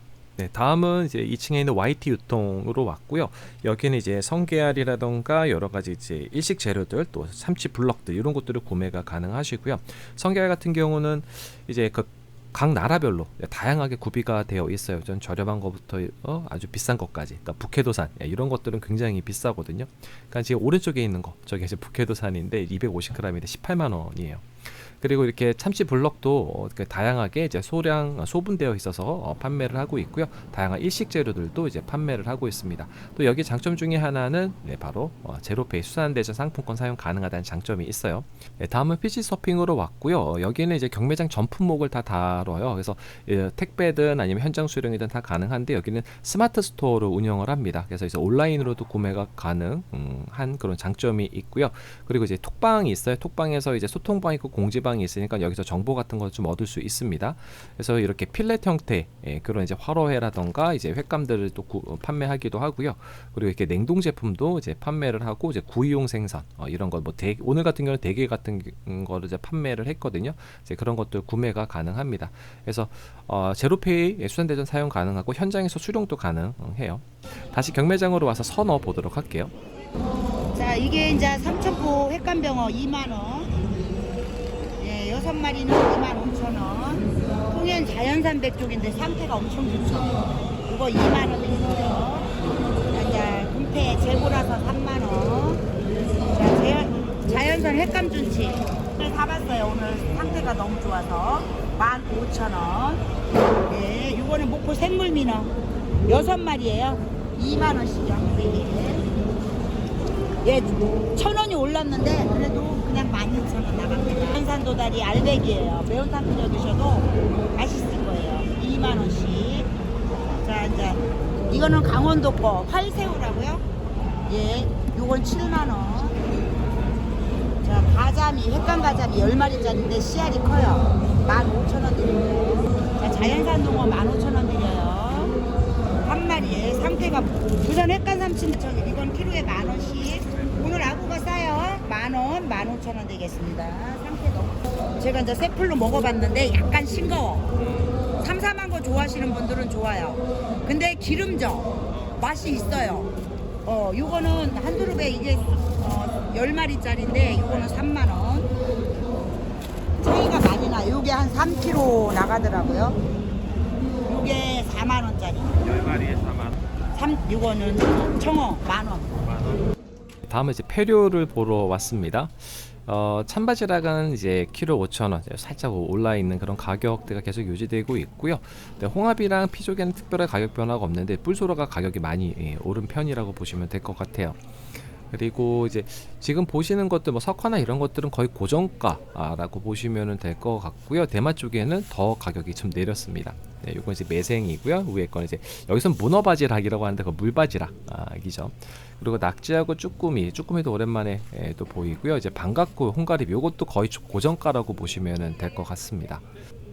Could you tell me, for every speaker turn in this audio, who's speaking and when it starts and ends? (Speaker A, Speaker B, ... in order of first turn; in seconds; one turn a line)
Speaker A: 0.4-79.5
Speaker B: 80.5-83.7
Speaker B: 84.8-92.3
Speaker B: 92.9-95.6
Speaker B: 96.2-103.0
Speaker B: 103.7-105.5
Speaker B: 106.0-109.1
Speaker B: 110.4-119.7
Speaker B: 120.2-123.6
Speaker B: 124.2-126.2
Speaker B: 127.6-135.3
Speaker B: 136.0-147.5
Speaker C: 147.6-148.0
Speaker B: 148.1-153.1
Speaker C: 151.9-152.2
Speaker B: 153.6-158.5
Speaker B: 160.0-163.0
Speaker B: 164.0-165.6
Speaker C: 165.6-166.6
Speaker B: 166.9-169.2
Speaker C: 169.2-169.6
Speaker A: 170.2-206.3